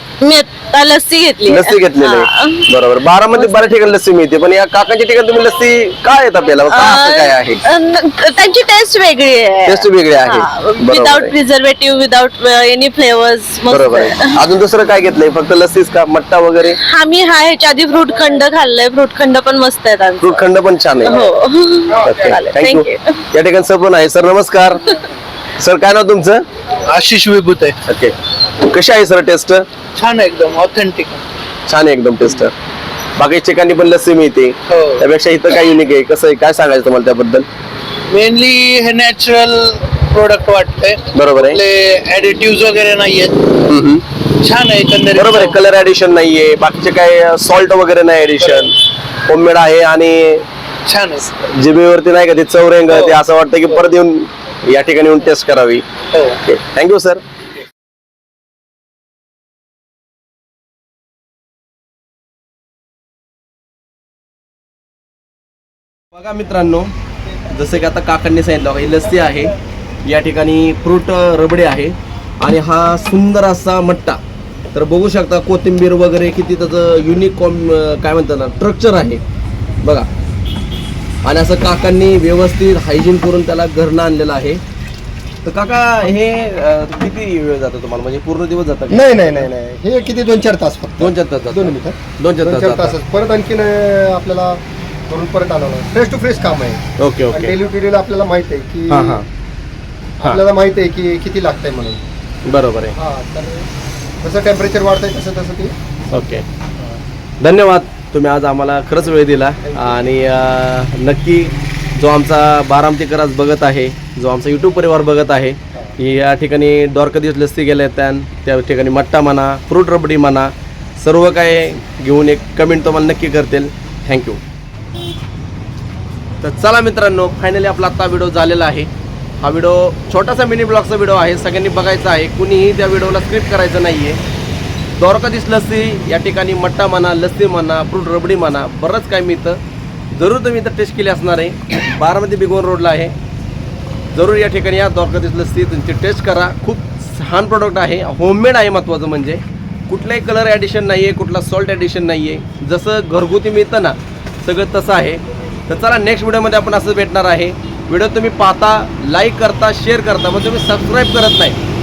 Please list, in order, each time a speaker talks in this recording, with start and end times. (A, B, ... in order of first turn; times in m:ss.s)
0:00.2-0:02.7 A
0:01.5-0:07.6 B
0:03.3-0:03.7 A
0:06.7-0:14.4 A
0:09.7-0:11.3 B
0:13.7-0:16.8 B
0:16.8-0:20.5 A
0:20.2-0:21.3 B
0:21.0-0:23.2 A
0:22.0-0:24.9 B
0:25.6-0:26.4 B
0:26.9-0:27.8 C
0:27.9-0:29.7 B
0:30.0-0:31.2 C
0:31.7-0:32.5 B
0:33.2-0:37.5 B
0:34.7-0:35.0 C
0:38.1-0:43.5 C
0:41.1-0:41.6 B
0:43.7-0:44.0 B
0:44.4-0:45.6 C
0:45.2-0:48.8 B
0:49.3-0:50.4 B
0:50.9-0:51.3 C
0:51.4-0:55.8 B
0:52.9-0:53.2 C
0:56.4-0:57.2 B
1:06.1-1:06.9 B
1:07.5-1:09.5 B
1:10.0-1:14.2 B
1:14.7-1:19.2 B
1:19.8-1:20.1 B
1:21.2-1:24.6 B
1:25.4-1:29.5 B
1:28.9-1:36.8 D
1:31.0-1:33.0 B
1:37.0-1:37.6 B
1:37.3-1:39.2 D
1:38.9-1:39.2 B
1:40.2-1:42.0 D
1:42.5-1:43.0 B
1:42.9-1:43.7 D
1:44.2-1:45.7 D
1:46.1-1:46.4 B
1:47.4-2:04.4 B
1:49.7-1:50.0 D
2:06.4-2:08.9 B
2:09.4-2:14.2 B
2:15.0-2:19.6 B
2:20.2-2:23.2 B
2:24.1-2:41.6 B